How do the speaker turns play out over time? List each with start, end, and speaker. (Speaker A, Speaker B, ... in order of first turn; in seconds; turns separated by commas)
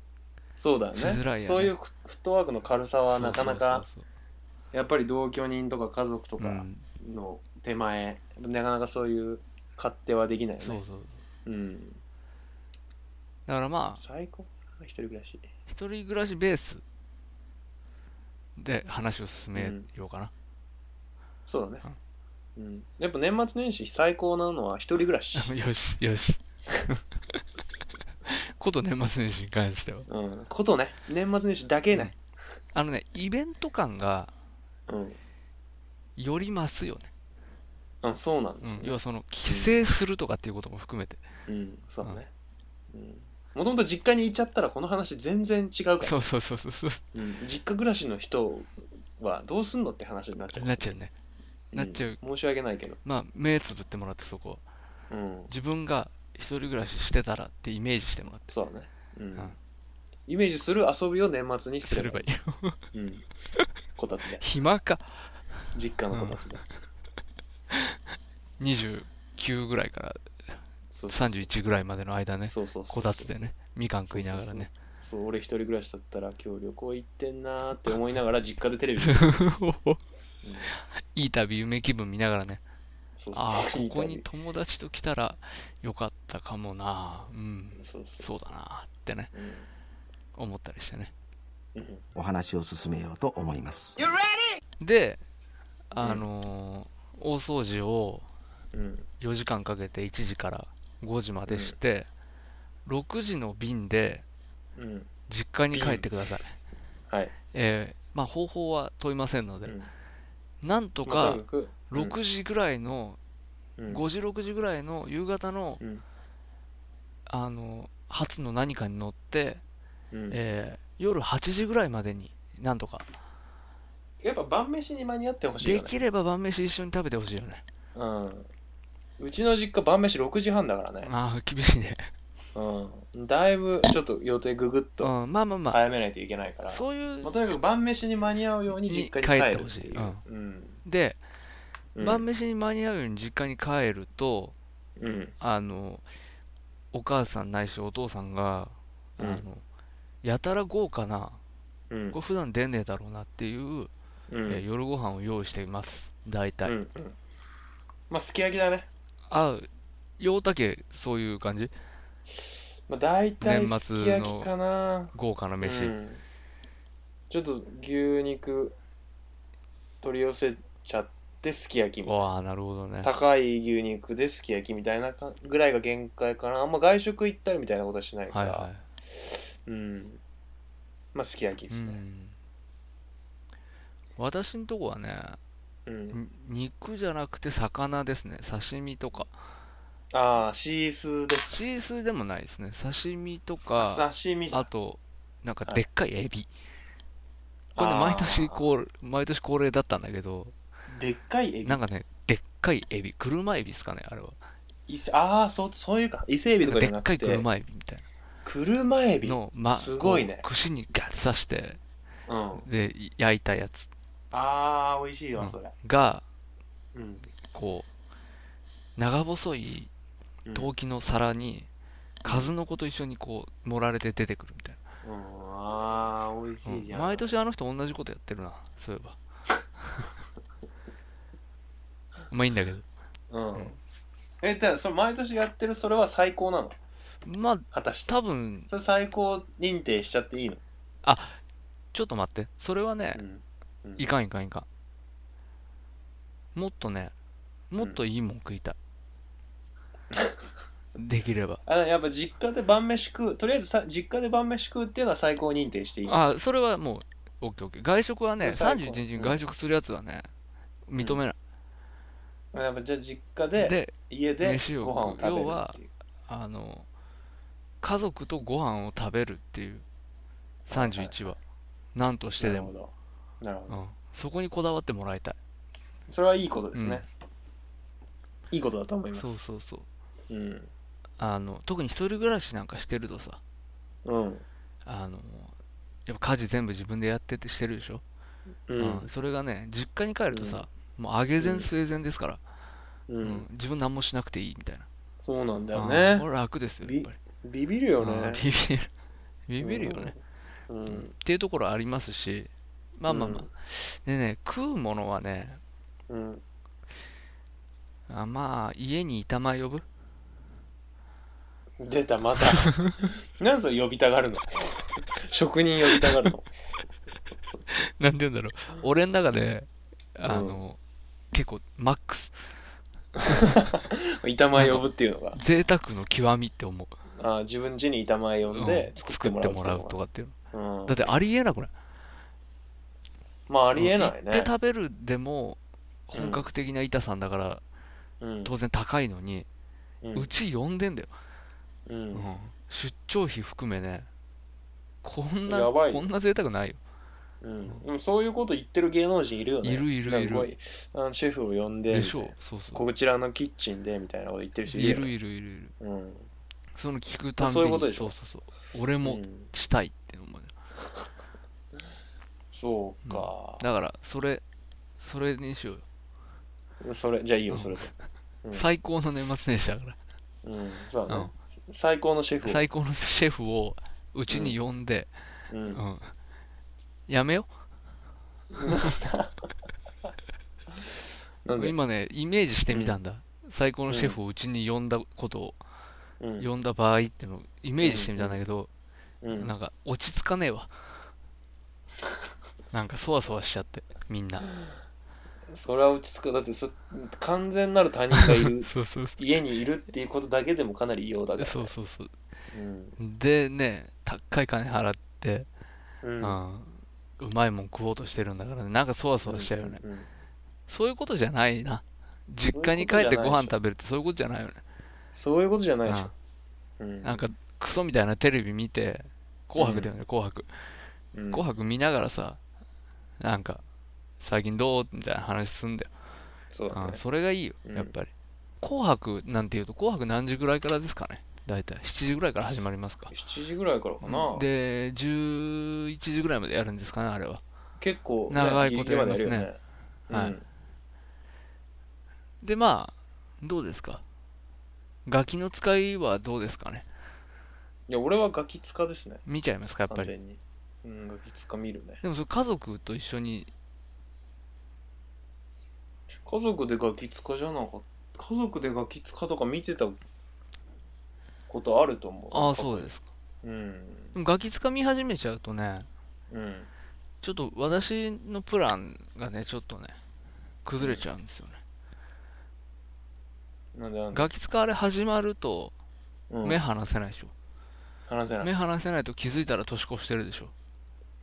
Speaker A: 0.6-3.8, Speaker B: 0.9-1.7, Speaker B: 3.1-4.0, Speaker A: 4.7-10.8, Speaker B: 6.4-6.9, Speaker B: 10.6-11.2, Speaker A: 11.4-12.0, Speaker B: 13.5-14.0, Speaker A: 14.0-15.5, Speaker B: 15.7-16.8, Speaker B: 18.6-20.3, Speaker A: 19.5-19.9, Speaker A: 21.5-21.8, Speaker A: 22.6-25.5, Speaker B: 25.3-27.4, Speaker B: 28.3-30.1, Speaker A: 30.1-32.2, Speaker B: 32.7-34.3, Speaker A: 34.9-35.2, Speaker B: 36.2-37.1, Speaker A: 38.0-39.7, Speaker B: 38.6-41.2, Speaker A: 41.5-42.3, Speaker A: 42.9-46.1, Speaker B: 46.0-47.0, Speaker A: 47.1-50.9, Speaker B: 50.5-51.1, Speaker A: 51.7-53.0, Speaker B: 51.7-52.2, Speaker B: 53.0-54.6, Speaker A: 55.1-55.5, Speaker B: 55.5-58.5, Speaker A: 58.5-59.5, Speaker A: 60.3-62.3, Speaker B: 61.8-62.8, Speaker A: 62.9-63.2, Speaker A: 64.0-64.4, Speaker B: 64.4-65.3, Speaker A: 65.7-66.7, Speaker B: 66.1-66.4, Speaker B: 68.6-70.2, Speaker A: 70.9-71.5, Speaker B: 71.1-74.7, Speaker A: 72.5-73.4, Speaker A: 74.1-79.4, Speaker B: 79.0-80.0, Speaker B: 80.7-82.6, Speaker A: 83.2-84.3, Speaker B: 83.3-89.3, Speaker A: 87.8-88.3, Speaker A: 89.3-89.7, Speaker B: 90.3-91.1, Speaker A: 91.7-92.0, Speaker C: 92.1-94.1, Speaker B: 94.8-95.2, Speaker B: 95.9-98.2, Speaker A: 96.0-96.2, Speaker A: 98.7-99.1, Speaker B: 99.2-102.1, Speaker A: 101.5-101.8, Speaker B: 102.8-104.2, Speaker A: 104.8-105.1, Speaker B: 105.3-106.5, Speaker A: 105.7-106.1, Speaker A: 107.1-107.3, Speaker B: 107.5-109.7, Speaker A: 109.6-109.9, Speaker B: 110.6-113.2, Speaker A: 111.0-112.2, Speaker A: 113.8-114.0, Speaker B: 113.9-115.8, Speaker B: 117.3-119.6, Speaker A: 120.1-120.4, Speaker B: 120.3-123.1, Speaker A: 124.2-125.9, Speaker B: 125.6-127.6, Speaker A: 127.9-128.5, Speaker A: 129.2-131.1, Speaker B: 131.0-132.1, Speaker A: 132.5-135.1, Speaker B: 135.0-135.8, Speaker A: 135.7-140.8, Speaker B: 136.7-137.5, Speaker B: 138.7-140.2, Speaker B: 140.8-141.2, Speaker A: 141.9-142.2, Speaker B: 142.0-144.5, Speaker A: 145.0-145.3, Speaker B: 145.4-146.0, Speaker B: 146.9-149.6, Speaker A: 149.2-149.4, Speaker B: 150.2-151.4, Speaker A: 151.9-152.2, Speaker B: 152.1-153.9, Speaker A: 154.3-154.6, Speaker B: 154.5-156.7, Speaker A: 156.6-157.2, Speaker A: 158.1-158.9, Speaker B: 159.3-159.7, Speaker B: 160.2-161.7, Speaker A: 162.9-166.2, Speaker B: 163.4-164.5, Speaker B: 165.1-165.9, Speaker A: 167.3-168.8, Speaker A: 170.0-172.3, Speaker B: 172.0-173.1, Speaker A: 173.0-178.7, Speaker B: 178.3-178.8, Speaker A: 179.2-180.2, Speaker A: 181.1-182.0, Speaker B: 181.7-182.3, Speaker B: 184.2-185.4, Speaker A: 185.8-186.2, Speaker B: 186.1-189.3, Speaker A: 190.1-191.6, Speaker B: 191.5-196.5, Speaker A: 193.8-194.7, Speaker A: 197.7-198.7, Speaker B: 197.8-200.5, Speaker A: 200.9-201.8, Speaker B: 201.6-204.4, Speaker A: 204.9-207.4, Speaker B: 206.6-208.0, Speaker A: 208.4-210.4, Speaker B: 209.2-211.8, Speaker A: 212.3-212.7, Speaker B: 212.6-213.9, Speaker A: 214.3-215.7, Speaker B: 215.3-216.2, Speaker A: 216.9-217.3, Speaker B: 217.5-217.9, Speaker B: 219.0-219.9, Speaker A: 220.4-220.7, Speaker B: 220.5-221.7, Speaker B: 222.2-224.8, Speaker A: 222.2-222.5, Speaker A: 225.0-227.3, Speaker B: 226.6-229.2, Speaker B: 229.8-230.1, Speaker B: 232.3-232.8, Speaker A: 233.3-233.8, Speaker A: 234.4-236.8, Speaker B: 237.2-238.7, Speaker A: 237.7-238.1, Speaker A: 238.7-240.6, Speaker B: 241.0-241.4, Speaker B: 241.9-243.2, Speaker A: 243.1-244.1, Speaker B: 244.0-244.7, Speaker B: 246.5-247.1, Speaker B: 247.7-248.8, Speaker A: 250.1-250.4, Speaker B: 250.9-251.6, Speaker A: 251.7-256.1, Speaker B: 256.0-260.3, Speaker A: 258.4-259.4, Speaker B: 260.9-261.4, Speaker A: 262.5-265.9, Speaker B: 263.6-265.8, Speaker B: 266.3-266.9, Speaker B: 267.8-269.8, Speaker B: 270.7-271.4, Speaker A: 270.7-271.2, Speaker B: 271.9-272.7, Speaker A: 272.4-273.8, Speaker B: 273.7-275.4, Speaker A: 276.1-277.0, Speaker B: 276.7-277.0, Speaker A: 278.5-279.4, Speaker B: 279.1-279.9, Speaker A: 280.3-280.7, Speaker B: 281.2-283.4, Speaker A: 284.0-284.4, Speaker B: 284.9-285.5, Speaker B: 286.1-288.0, Speaker A: 288.7-289.1, Speaker B: 288.8-292.4, Speaker A: 290.3-290.6, Speaker A: 291.4-291.7, Speaker A: 293.1-293.4, Speaker B: 293.2-294.9, Speaker A: 295.2-296.3, Speaker B: 295.7-297.2, Speaker A: 296.8-298.4, Speaker B: 298.0-298.9, Speaker B: 299.5-300.1, Speaker A: 299.6-301.1, Speaker B: 300.9-305.6, Speaker A: 303.1-303.5, Speaker A: 306.1-306.4, Speaker B: 308.1-309.8, Speaker A: 311.8-316.5, Speaker B: 312.6-313.0, Speaker B: 317.7-320.8, Speaker A: 320.2-320.6, Speaker B: 321.3-322.3, Speaker B: 323.2-323.5, Speaker A: 323.2-325.4, Speaker B: 324.5-326.9, Speaker A: 327.2-330.0, Speaker B: 328.5-330.3, Speaker A: 330.5-331.1, Speaker B: 330.9-331.7, Speaker A: 333.5-334.5, Speaker B: 333.8-337.6, Speaker A: 336.1-336.5, Speaker A: 338.2-338.5, Speaker B: 338.4-339.5, Speaker A: 340.0-340.3, Speaker B: 340.1-341.1, Speaker A: 341.9-342.3, Speaker B: 342.1-344.1, Speaker B: 345.0-346.8, Speaker A: 345.4-346.1, Speaker A: 347.4-355.1, Speaker B: 349.6-350.5, Speaker B: 351.9-352.8, Speaker B: 354.7-355.7, Speaker A: 355.8-356.3, Speaker B: 356.8-360.5, Speaker A: 357.4-358.1, Speaker A: 359.0-359.5, Speaker A: 362.5-363.6, Speaker B: 363.0-364.4, Speaker B: 365.0-365.8, Speaker A: 366.8-367.9, Speaker B: 367.5-367.8, Speaker B: 368.5-370.0, Speaker A: 370.4-372.6, Speaker B: 372.4-375.1, Speaker A: 374.3-374.6, Speaker A: 375.5-375.8, Speaker B: 375.7-376.1, Speaker B: 377.1-377.5, Speaker A: 378.5-379.4, Speaker A: 381.4-381.7, Speaker B: 381.6-385.6, Speaker A: 382.7-383.0, Speaker A: 383.9-384.2, Speaker A: 386.2-386.5, Speaker B: 386.4-388.7, Speaker A: 387.8-388.4, Speaker A: 389.2-389.5, Speaker B: 389.4-390.7, Speaker B: 392.7-394.5, Speaker A: 395.5-401.7, Speaker B: 398.1-399.2, Speaker B: 401.4-402.1, Speaker A: 402.5-402.9, Speaker B: 403.0-405.5, Speaker A: 406.0-406.4, Speaker B: 406.2-409.8, Speaker A: 409.2-410.1, Speaker B: 410.7-414.6, Speaker A: 412.5-413.6, Speaker A: 415.1-416.1, Speaker B: 415.9-416.1, Speaker A: 416.8-417.2, Speaker B: 417.0-420.5, Speaker A: 419.6-419.9, Speaker A: 421.1-421.4, Speaker B: 421.3-422.4, Speaker B: 423.2-423.6, Speaker B: 424.2-425.9, Speaker A: 426.5-427.0, Speaker B: 426.7-428.1, Speaker A: 427.6-427.9, Speaker B: 428.6-433.1, Speaker A: 433.1-434.4, Speaker B: 434.0-437.4, Speaker A: 437.8-439.6, Speaker B: 438.3-439.5, Speaker A: 440.1-440.4, Speaker B: 440.1-440.4, Speaker B: 442.4-444.0, Speaker B: 445.1-446.9, Speaker A: 447.9-449.2, Speaker B: 449.2-450.1, Speaker A: 449.9-452.0, Speaker B: 452.0-453.5, Speaker A: 456.2-460.0, Speaker A: 461.5-462.9, Speaker B: 462.3-463.1, Speaker A: 463.4-464.1, Speaker B: 464.1-465.9, Speaker A: 466.3-466.7, Speaker B: 467.2-470.0, Speaker B: 470.6-471.6, Speaker A: 470.8-471.0, Speaker A: 473.7-474.3, Speaker B: 474.1-475.7, Speaker A: 476.3-476.6, Speaker B: 476.4-477.3, Speaker A: 478.1-478.5, Speaker B: 478.4-480.5